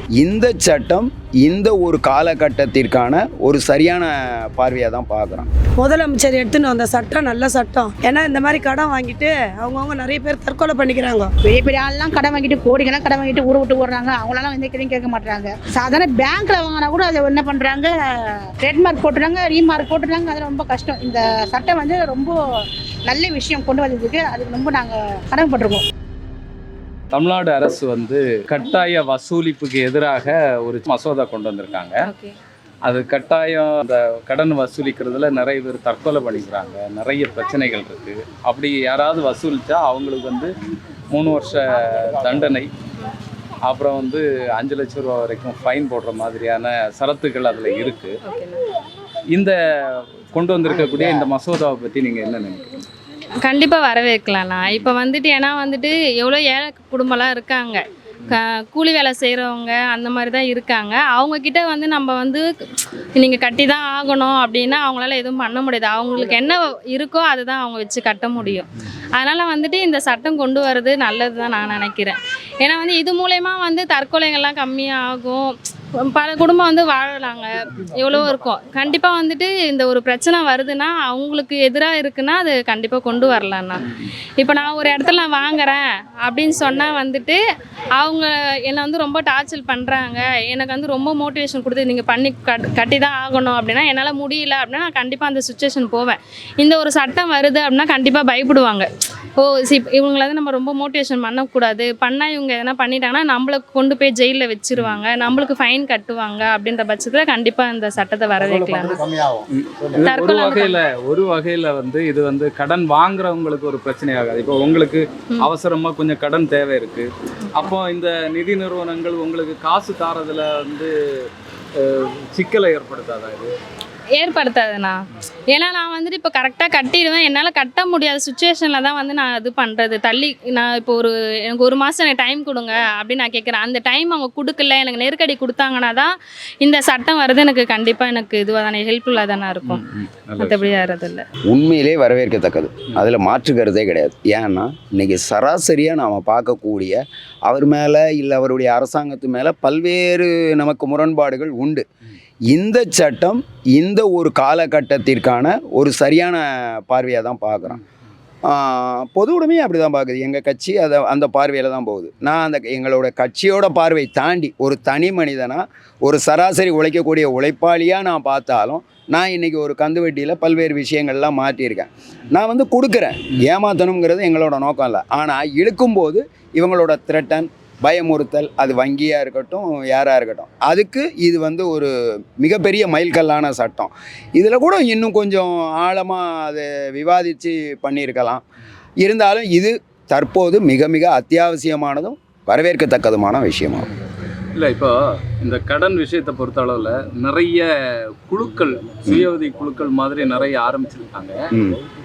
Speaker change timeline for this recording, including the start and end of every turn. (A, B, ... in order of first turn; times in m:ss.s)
0:00.2-0:05.5 A
0:05.8-0:11.3 B
0:11.5-0:22.4 C
0:23.1-0:25.8 C
0:27.1-0:32.0 D
0:32.0-0:32.4 E
0:32.8-0:40.5 D
0:41.1-0:42.7 D
0:43.6-0:48.2 D
0:48.2-0:48.6 E
0:49.3-0:52.8 D
0:53.4-1:27.4 E
1:28.0-1:49.0 E
1:49.5-2:03.5 D
1:50.0-1:50.8 E
2:04.2-2:19.8 E
2:19.6-2:20.7 D
2:20.4-2:21.2 E
2:21.5-2:31.8 A
2:32.5-2:37.8 A
2:38.5-3:01.9 A
3:02.4-3:08.4 A
3:09.0-3:13.8 A
3:14.5-3:17.7 D
3:18.2-3:21.4 D